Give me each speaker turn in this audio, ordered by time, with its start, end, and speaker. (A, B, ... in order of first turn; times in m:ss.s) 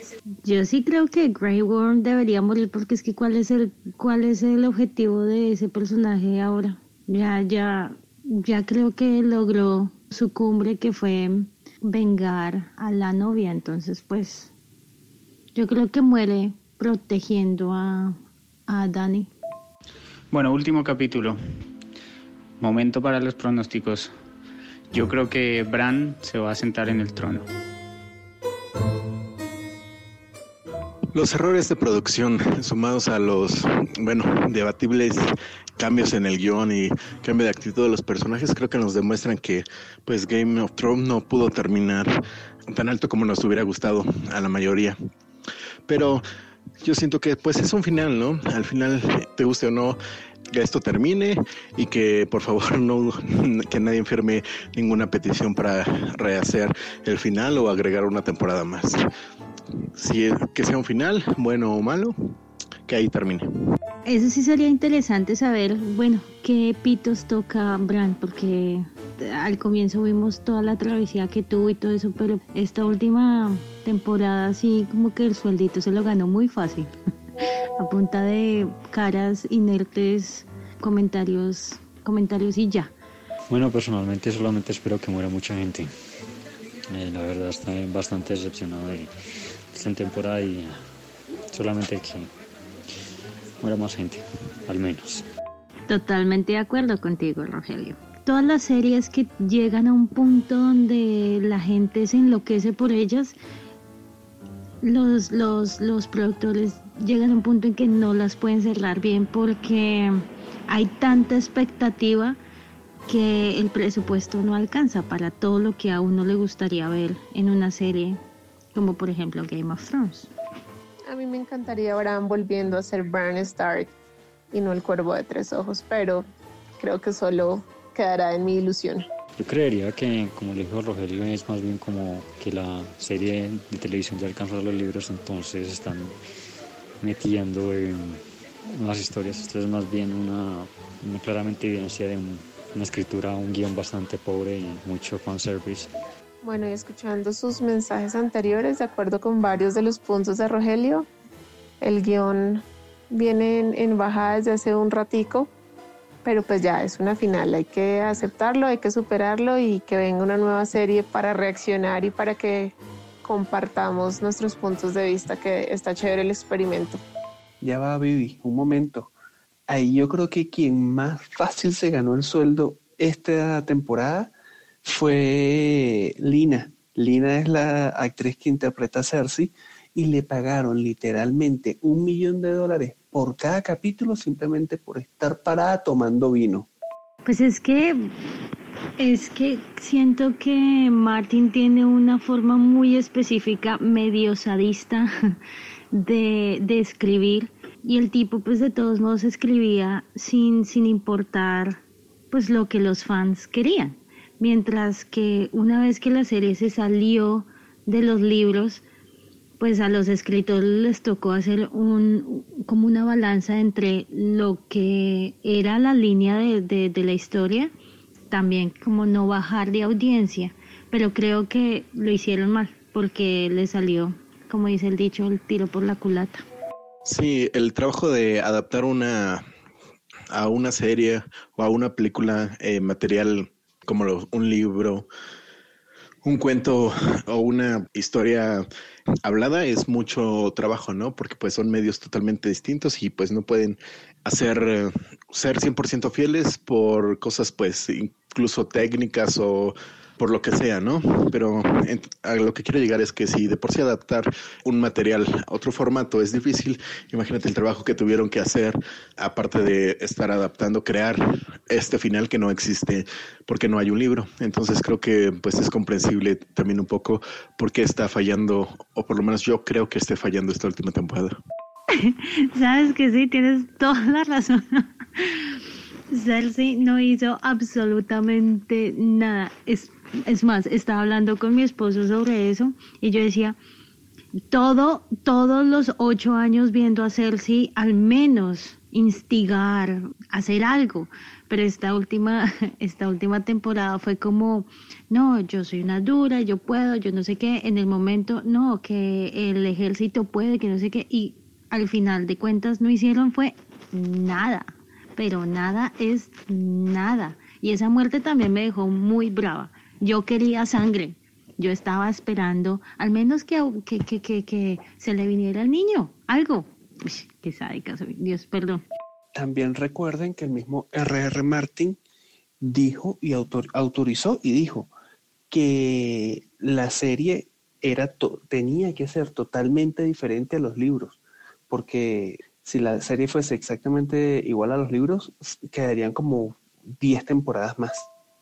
0:00.4-0:14.5 A
0:15.6-0:19.3 A
0:20.3-0:21.4 B
0:22.6-0:24.1 B
0:24.9-0:27.5 B
0:31.1-0:45.0 C
0:45.9-0:46.2 C
0:46.8-0:50.0 C
0:50.5-0:59.0 C
1:00.0-1:02.3 C
1:02.9-1:03.5 C
1:04.0-1:16.9 A
1:17.8-1:22.9 A
1:23.5-1:25.9 D
1:26.9-1:29.1 D
1:29.7-1:30.8 D
1:31.5-1:32.3 D
1:33.6-1:35.3 D
1:35.9-1:43.4 A
1:44.8-1:52.4 A
1:53.1-1:58.2 A
1:58.7-2:00.3 A
2:01.1-2:03.9 E
2:04.5-2:06.3 E
2:06.8-2:09.1 E
2:09.4-2:16.2 D
2:17.0-2:25.9 D
2:26.4-2:31.1 E
2:31.8-2:35.5 E
2:36.2-2:47.0 E
2:47.6-2:49.1 F
2:49.7-3:06.7 F
3:07.2-3:08.1 A
3:09.0-3:15.4 A
3:15.9-3:28.8 A
3:29.6-3:37.7 A
3:38.3-3:46.4 A
3:47.0-3:49.4 C
3:50.3-3:55.1 C
3:56.2-3:58.7 C
3:59.2-4:31.4 C
4:31.9-4:35.6 A
4:36.1-4:43.6 A
4:44.5-5:18.8 A
5:19.4-5:22.0 F
5:22.6-5:24.9 F
5:25.5-5:38.1 F